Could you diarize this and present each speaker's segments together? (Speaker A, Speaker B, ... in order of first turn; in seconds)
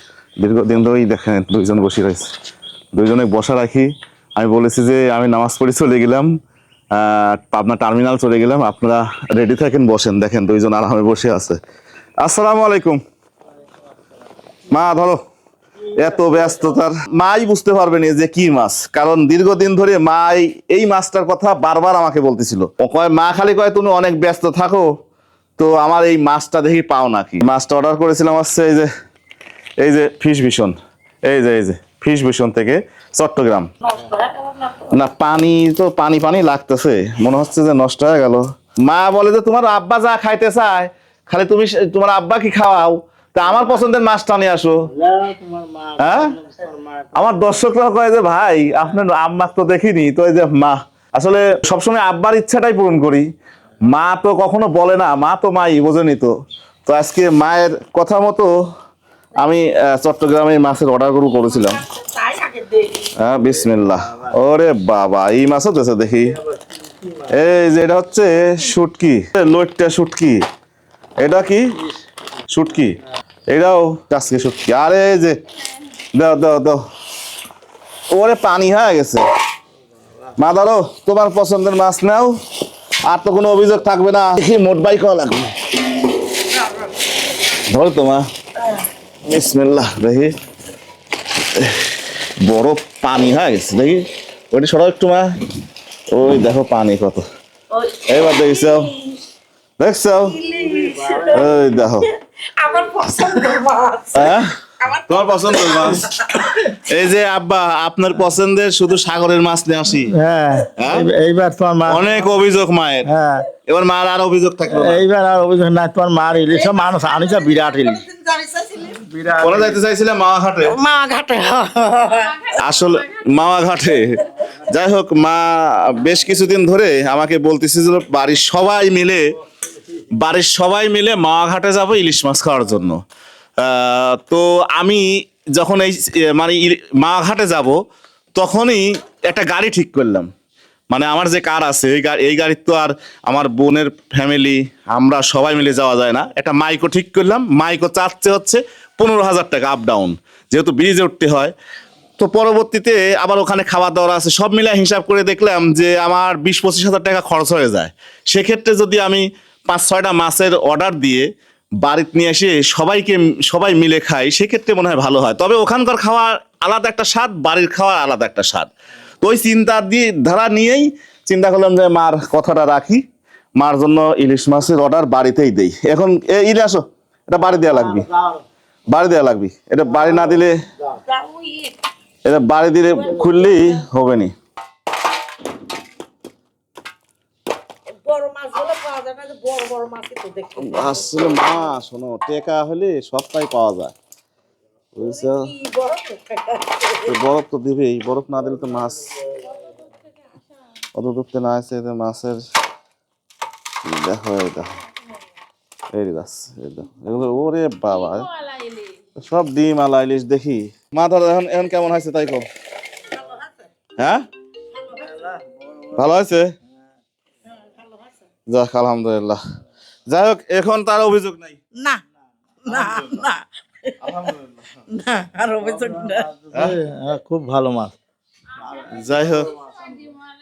Speaker A: 0.4-2.3, 2.9-6.4, 6.9-11.6, 12.2-13.0, 14.7-15.2, 15.9-24.9, 25.6-28.9, 29.8-33.7, 34.9-44.9, 46.0-46.4, 47.1-53.3, 53.9-56.3, 56.9-58.5, 59.4-61.8, 63.1-66.4, 67.3-70.4, 71.2-71.7, 72.5-73.0, 73.5-75.4, 76.1-76.8, 78.1-79.2, 80.3-82.4, 83.0-85.5, 87.5-88.3, 89.2-90.3, 91.5-95.3, 96.1-97.2, 98.0-99.0, 99.8-100.4, 101.3-102.1, 104.1-110.2, 110.8-111.1, 111.9-113.1, 113.7-115.0, 119.4-120.8, 122.5-129.3, 130.1-133.0, 133.6-137.8, 138.3-140.3, 140.9-151.5, 152.2-161.3, 161.8-168.7, 169.2-173.0, 173.6-178.1, 178.9-180.6, 182.2-184.3, 190.6-193.9, 194.9-195.5, 197.0-199.1, 200.9-202.4, 203.8-204.8, 205.9-208.3, 209.2-212.4, 214.0-214.2, 215.9-216.5, 218.5-219.4, 220.1-221.6, 222.7-223.3, 224.0-224.8, 226.5-226.8, 228.8-229.6
Speaker B: 33.8-34.9, 61.5-63.1, 98.5-99.2, 100.3-101.5, 102.4-106.5, 116.8-119.0, 120.7-122.5, 181.0-181.7, 183.1-183.5, 188.0-191.1, 195.0-197.2, 199.3-200.1, 208.4-208.9, 214.8-215.2, 224.9-226.2
Speaker C: 44.9-47.1, 110.0-112.1, 113.1-113.5, 114.7-118.0, 119.0-119.7, 222.6-223.4, 225.6-227.9